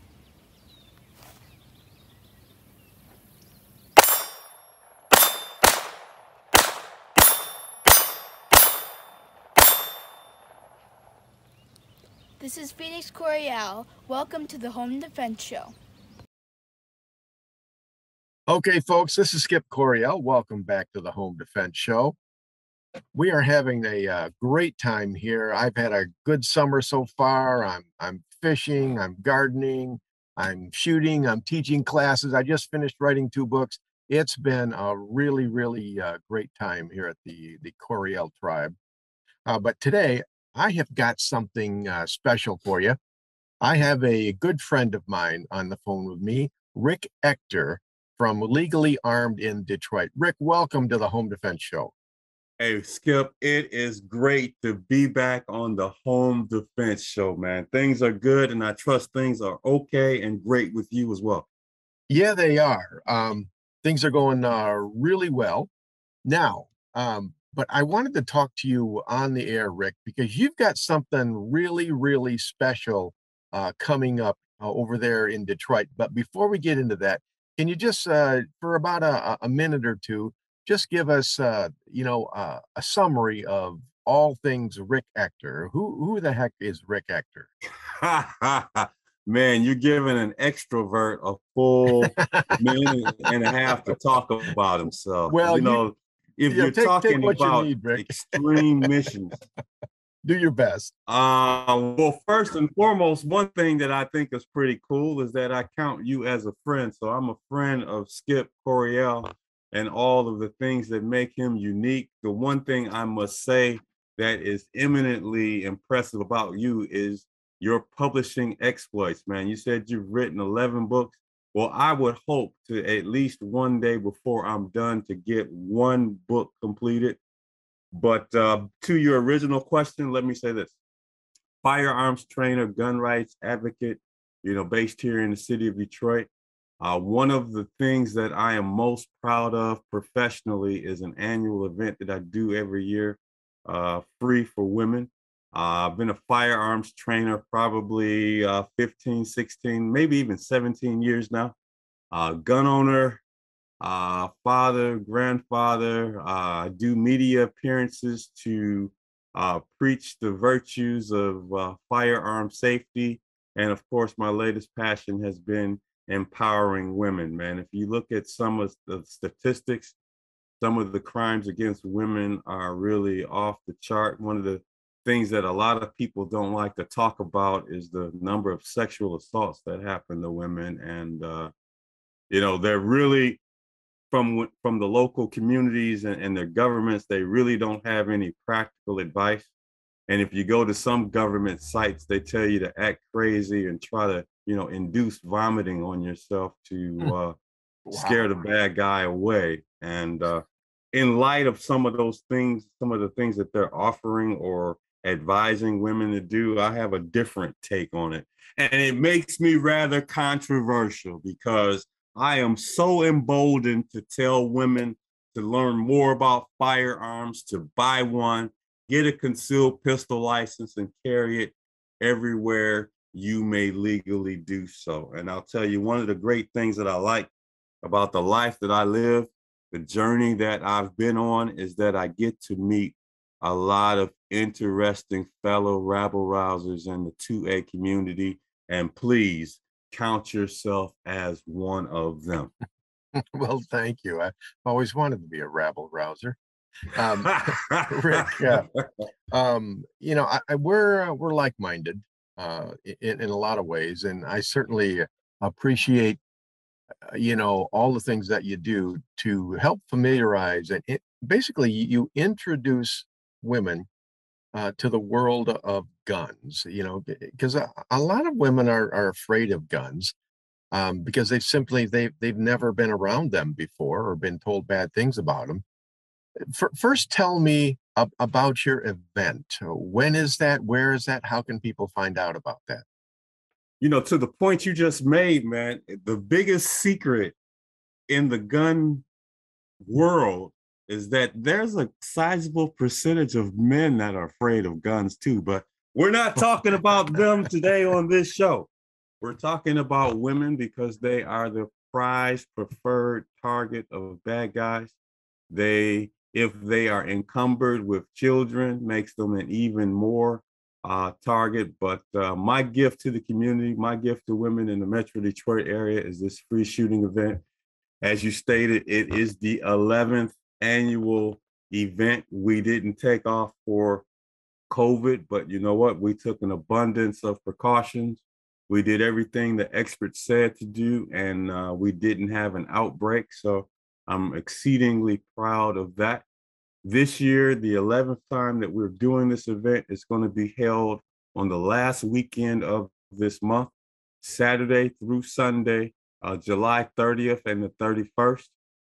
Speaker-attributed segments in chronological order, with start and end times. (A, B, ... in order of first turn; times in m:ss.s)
0:12.4-0:15.7 A
0:18.5-0:22.2 B
0:23.1-0:38.8 B
0:39.5-0:43.0 B
0:43.6-0:51.9 B
0:52.6-1:01.5 C
1:02.1-1:05.7 B
1:06.2-1:27.5 B
1:27.9-1:39.4 C
1:32.2-1:32.6 B
1:35.3-1:35.8 B
1:36.5-1:38.6 B
1:40.2-1:40.9 B
1:41.1-2:07.2 C
2:07.9-2:10.8 C
2:11.6-2:16.3 C
2:16.8-2:31.6 C
2:32.1-2:33.2 C
2:33.8-2:50.0 C
2:50.6-3:01.5 C
3:02.3-3:03.4 C
3:04.1-3:09.5 C
3:10.1-3:17.4 C
3:17.9-3:18.3 B
3:17.9-3:47.3 C
3:47.8-4:02.5 C
4:03.2-4:06.4 B
4:06.9-4:08.7 B
4:07.3-4:08.8 C
4:09.3-4:16.2 B
4:17.1-4:23.9 B
4:24.5-4:30.1 B
4:30.7-4:35.6 B
4:36.5-4:42.8 B
4:43.8-4:47.4 C
4:48.1-4:49.1 C
4:49.8-4:58.7 C
4:59.2-5:05.0 C
5:05.5-5:17.4 C
5:18.0-5:24.1 C
5:24.7-5:36.3 C
5:36.8-5:48.5 C